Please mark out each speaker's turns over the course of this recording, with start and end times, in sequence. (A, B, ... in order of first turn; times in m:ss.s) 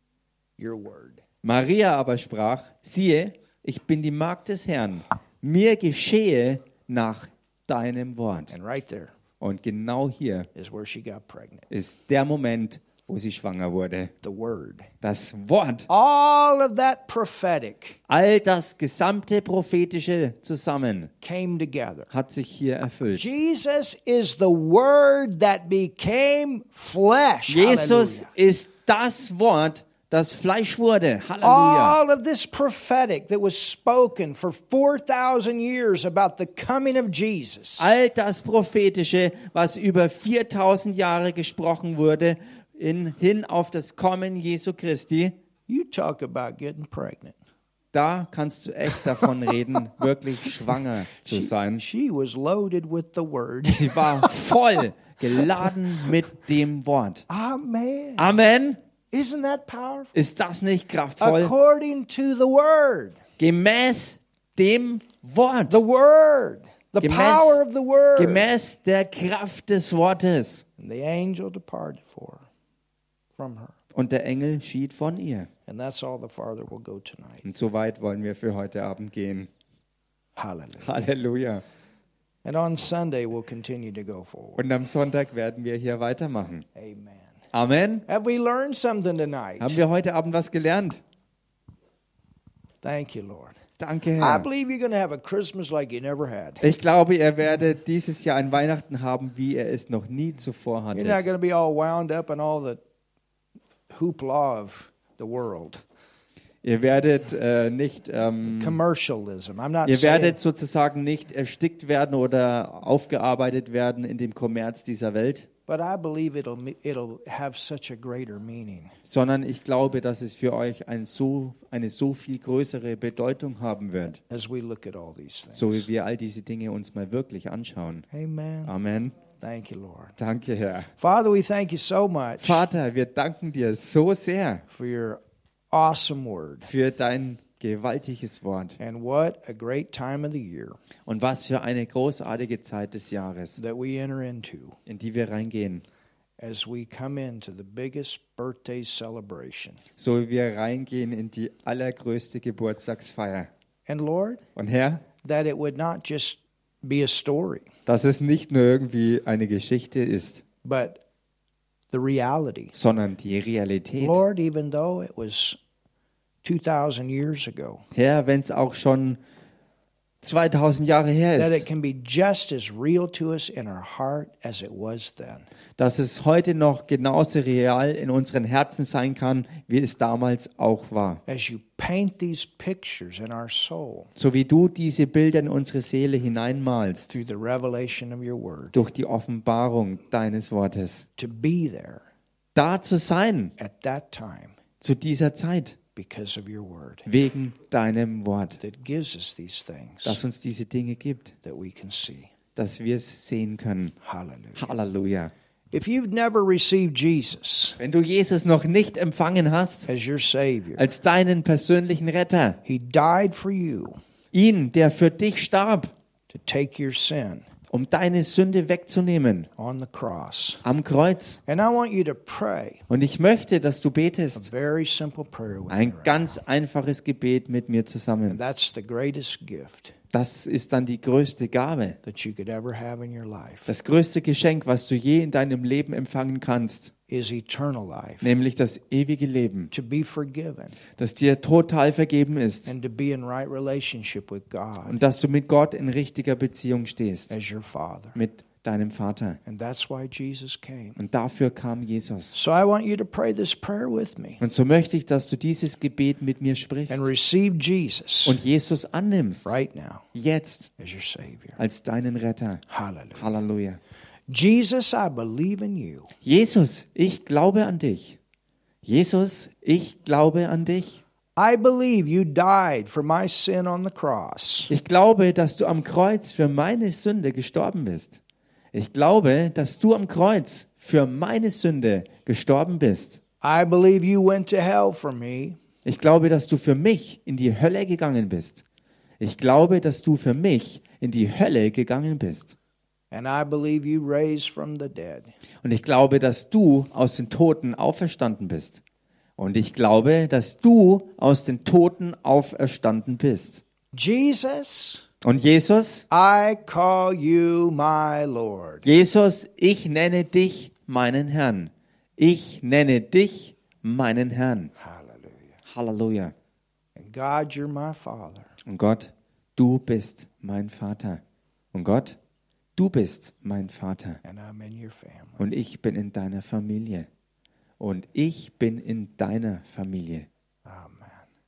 0:00.6-0:01.2 A
0:01.4-0:08.5 B
0:08.5-0:09.1 A
0:09.4-0:10.5 B
0:10.5-0:11.6 A
0:11.7-0:14.1 B
0:14.2-0:14.9 A
0:15.0-0:15.9 B
0:15.9-0:18.0 A
0:18.1-0:21.1 B
0:21.2-0:22.1 A
0:22.1-0:23.2 B
0:23.1-0:28.3 A
0:27.5-0:32.0 B
0:31.4-0:37.9 A
0:37.8-0:45.3 B
0:45.7-0:47.4 A
0:47.9-0:51.8 B
0:51.2-0:54.4 A
0:53.7-0:57.2 B
0:57.3-0:58.3 A
0:58.2-0:58.8 B
0:59.1-1:00.1 A
1:00.1-1:01.5 B
1:01.2-1:03.2 A
1:03.4-1:05.8 B
1:05.7-1:08.4 A
1:07.0-1:07.6 B
1:08.2-1:10.6 B
1:10.8-1:12.4 A
1:13.4-1:13.7 A
1:13.9-1:15.5 B
1:15.7-1:17.4 A
1:17.4-1:19.5 B
1:20.4-1:21.0 A
1:20.8-1:21.6 B
1:22.4-1:24.6 A
1:24.6-1:26.6 B
1:26.7-1:27.4 A
1:27.5-1:28.0 B
1:28.1-1:29.8 A
1:29.6-1:31.0 B
1:32.8-1:33.6 A
1:33.8-1:34.5 B
1:34.2-1:36.6 A
1:36.6-1:41.2 B
1:40.9-1:42.8 A
1:43.9-1:45.8 A
1:46.6-1:48.8 B
1:48.4-1:50.4 A
1:49.8-1:55.5 B
1:55.7-1:58.9 A
1:59.0-2:04.2 B
2:04.3-2:05.8 A
2:05.5-2:08.0 B
2:08.1-2:08.7 A
2:08.7-2:09.2 B
2:09.4-2:10.1 A
2:10.2-2:10.9 B
2:11.0-2:12.6 A
2:12.4-2:14.6 B
2:14.7-2:15.2 A
2:15.7-2:16.7 A
2:16.6-2:18.8 B
2:18.8-2:20.8 A
2:21.1-2:23.6 B
2:23.6-2:24.8 A
2:24.8-2:25.8 B
2:26.4-2:29.8 A
2:30.0-2:33.5 B
2:33.9-2:34.4 A
2:34.6-2:35.0 B
2:35.2-2:37.7 A
2:37.8-2:40.4 B
2:40.6-2:41.0 A
2:41.9-2:42.7 A
2:42.7-2:44.2 B
2:44.0-2:45.6 A
2:46.4-2:47.8 A
2:47.9-2:49.2 B
2:50.2-2:51.6 B
2:51.4-2:55.4 A
2:55.8-3:01.2 B
3:01.3-3:04.1 A
3:04.2-3:07.1 B
3:07.1-3:08.8 A
3:08.7-3:11.0 B
3:11.2-3:12.0 A
3:12.5-3:13.5 B
3:13.6-3:14.6 A
3:14.8-3:15.8 B
3:16.0-3:17.1 A
3:17.0-3:18.6 B
3:18.6-3:20.2 A
3:20.0-3:21.3 B
3:21.4-3:22.3 A
3:22.6-3:23.9 B
3:24.0-3:24.7 A
3:24.6-3:25.3 B
3:25.7-3:27.8 A
3:27.8-3:29.9 B
3:29.9-3:30.8 A
3:30.8-3:32.6 B
3:32.6-3:34.0 A
3:34.3-3:35.9 B
3:36.3-3:37.4 A
3:37.7-3:39.5 B
3:39.6-3:40.6 A
3:40.6-3:41.4 B
3:41.4-3:42.8 A
3:42.9-3:44.5 B
3:44.3-3:46.4 A
3:45.7-3:48.4 B
3:48.3-3:49.9 A
3:50.1-3:52.0 B
3:52.0-3:53.7 A
3:53.7-3:56.9 B
3:57.1-3:58.3 A
3:58.2-3:59.7 B
3:59.7-4:00.8 A
4:01.0-4:02.7 B
4:02.6-4:05.0 A
4:04.9-4:07.3 B
4:07.3-4:08.2 A
4:08.1-4:09.4 B
4:09.4-4:11.0 A
4:11.0-4:12.3 B
4:12.3-4:14.4 A
4:14.4-4:17.1 B
4:16.9-4:18.4 A
4:18.2-4:19.5 B
4:19.4-4:20.0 A
4:20.1-4:20.7 B
4:20.8-4:21.6 A
4:21.6-4:22.6 B
4:22.7-4:23.3 A
4:23.2-4:23.8 B
4:24.3-4:26.1 A
4:26.2-4:28.2 B
4:28.8-4:31.0 B
4:31.4-4:34.7 A
4:34.7-4:38.2 B
4:38.7-4:43.2 B
4:43.4-4:45.6 A
4:45.8-4:48.6 B
4:49.2-4:52.5 B
4:53.1-4:55.3 A
4:55.6-4:58.8 B
4:59.4-5:03.6 B
5:03.9-5:05.0 A
5:05.2-5:06.0 B
5:06.1-5:08.8 A
5:08.8-5:14.7 B
5:14.8-5:15.5 A
5:15.6-5:16.3 B
5:17.0-5:18.5 A
5:18.6-5:21.2 B
5:21.7-5:22.2 B
5:22.8-5:24.2 B
5:24.2-5:25.4 A
5:25.4-5:27.1 B
5:27.8-5:30.3 B
5:30.6-5:31.2 A